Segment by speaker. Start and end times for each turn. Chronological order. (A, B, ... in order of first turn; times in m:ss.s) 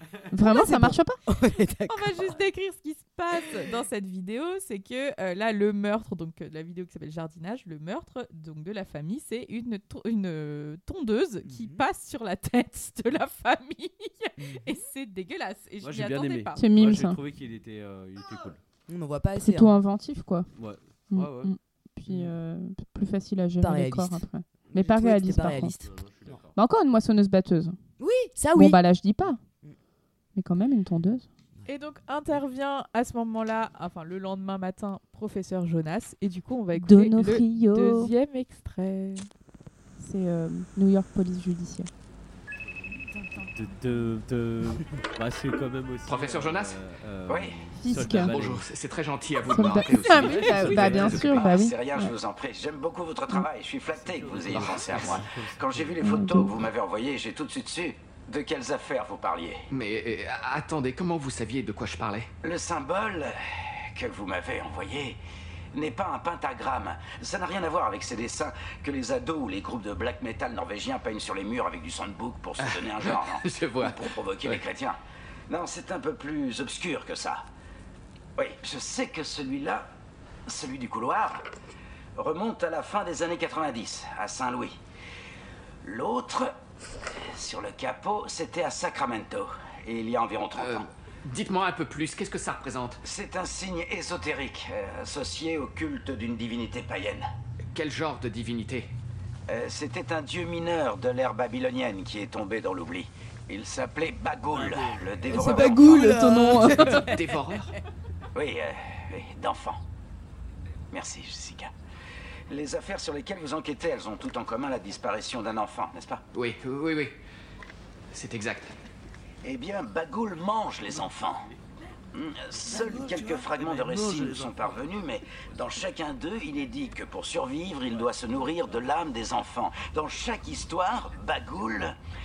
0:00.3-0:01.2 A
0:00.4-0:02.3 B
0:01.9-0:16.6 C
0:11.4-0:11.8 B
0:14.4-0:14.7 B
0:15.8-0:18.6 D
0:16.6-0:17.2 A
0:18.9-0:19.8 B
0:19.4-0:20.5 A
0:20.6-0:21.5 D
0:21.1-0:25.7 A
0:22.1-0:22.3 D
0:23.6-0:26.4 B
0:25.8-0:26.5 D
0:26.6-0:27.8 A
0:28.0-0:28.8 B
0:28.5-0:29.4 A
0:30.3-0:31.3 A
0:31.7-0:39.3 C
0:36.7-0:38.1 A
0:40.0-0:41.9 A
0:42.5-0:43.0 D
0:42.9-0:43.9 C
0:43.5-0:48.7 D
0:46.0-0:46.8 E
0:47.3-0:47.6 F
0:47.8-0:48.3 A
0:48.2-0:51.4 E
0:49.5-0:52.1 A
0:50.0-0:51.4 D
0:51.3-0:59.7 F
0:53.9-0:56.2 D
0:54.5-0:55.2 E
0:56.0-0:56.5 A
0:59.7-1:02.3 E
1:02.4-1:05.2 F
1:05.7-1:17.4 F
1:12.6-1:14.6 E
1:18.4-1:19.9 F
1:20.5-1:21.5 F
1:22.2-1:24.8 F
1:25.8-1:26.6 F
1:27.2-1:30.9 F
1:30.6-1:33.0 E
1:33.0-1:37.2 F
1:37.7-1:38.9 E
1:39.5-1:46.2 F
1:44.5-1:45.1 D
1:45.3-1:47.1 B
1:45.3-1:47.1 A
1:47.0-1:47.7 E
1:48.3-1:49.8 F
1:50.9-1:51.7 F
1:52.5-1:56.2 F
1:56.3-1:57.2 E
1:58.1-1:58.7 E
1:59.4-2:01.5 F
2:01.0-2:01.6 D
2:02.1-2:12.0 F
2:02.5-2:05.5 D
2:08.0-2:08.5 D